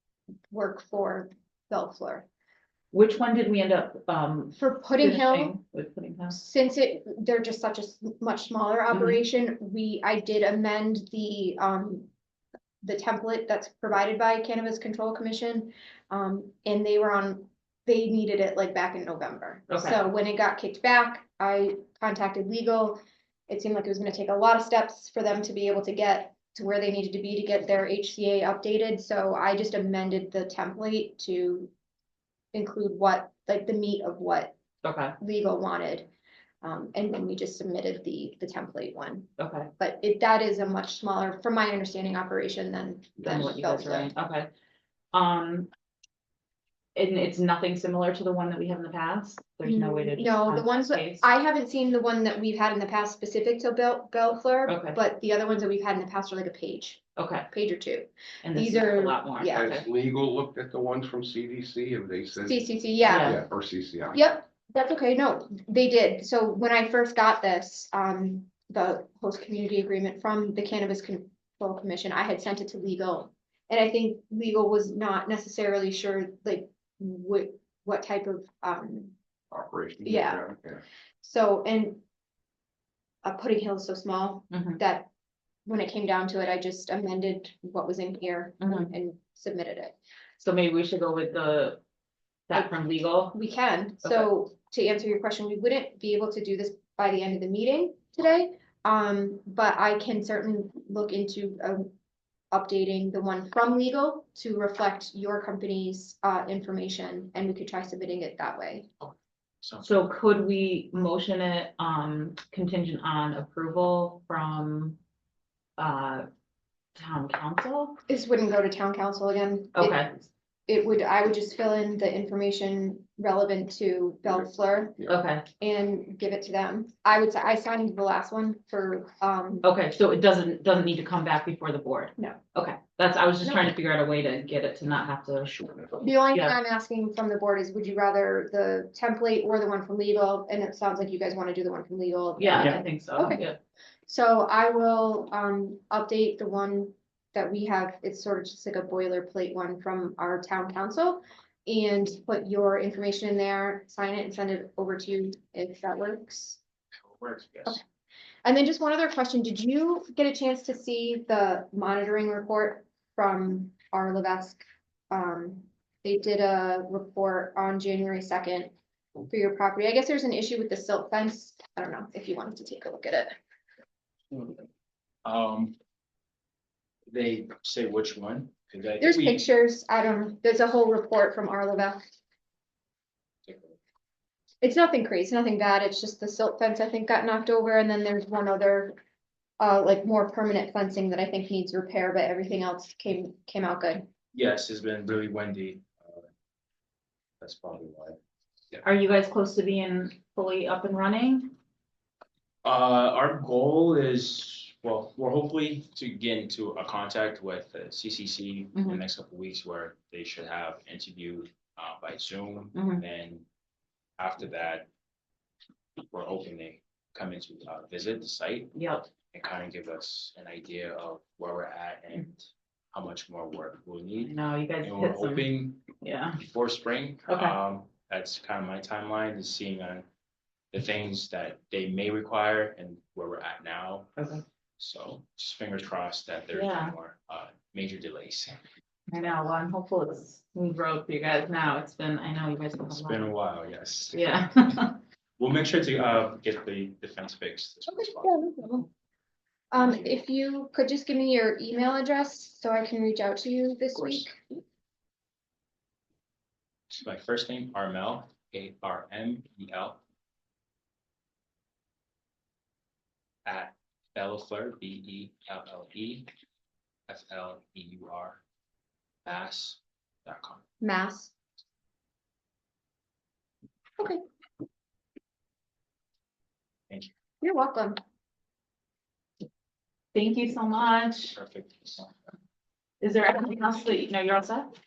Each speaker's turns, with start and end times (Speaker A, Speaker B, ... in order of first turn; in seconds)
Speaker A: 0.5-2.3, 4.6-5.5, 6.3-12.1, 12.8-31.7, 32.5-34.6, 35.2-36.1, 36.6-44.1, 49.6-59.9, 62.5-63.4, 64.1-79.2, 80.0-80.5, 81.2-82.0, 83.2-85.1, 85.7-90.0, 93.3-101.9, 102.5-108.9, 118.1-125.0, 125.6-129.7, 133.4-133.7, 136.0-143.4, 144.1-156.6, 158.4-168.7, 169.3-173.3, 179.0-182.0, 184.6-189.0, 189.6-194.1, 247.9-248.9, 249.7-254.6, 270.8-271.3, 277.4-278.0
Speaker B: 2.9-6.4, 8.9-9.2, 19.7-20.0, 34.8-35.1, 39.4-39.7, 43.2-44.5, 45.1-45.7, 47.0-51.3, 54.7-55.0, 57.2-57.5, 58.4-59.9, 63.0-63.4, 84.5-84.8, 88.6-88.9, 90.4-91.8, 92.5-93.3, 94.0-94.3, 109.8-115.0, 115.8-116.3, 117.0-118.0, 119.8-120.1, 125.0-125.5, 129.6-135.6, 142.4-143.6, 198.8-201.5, 208.8-209.0, 212.7-213.0, 218.7-219.1, 224.2-225.5, 226.0-226.4, 227.3-227.6, 234.2-234.4, 236.5-236.9, 239.1-243.3, 244.1-245.0, 280.1-281.4, 283.0-284.7
Speaker C: 59.5-64.2, 79.5-80.8, 135.6-136.0
Speaker D: 109.6-110.0, 157.0-157.8, 174.3-174.6, 175.2-175.8, 177.1-179.4, 183.5-183.8, 194.3-196.2, 197.4-198.2, 202.6-213.5, 214.2-214.9, 216.1-218.7, 219.3-225.9, 226.4-230.1, 230.7-234.1, 234.8-238.6, 242.9-244.4, 245.4-248.3, 256.9-260.0, 263.5-266.3, 267.1-268.4, 269.3-270.6, 281.3-282.1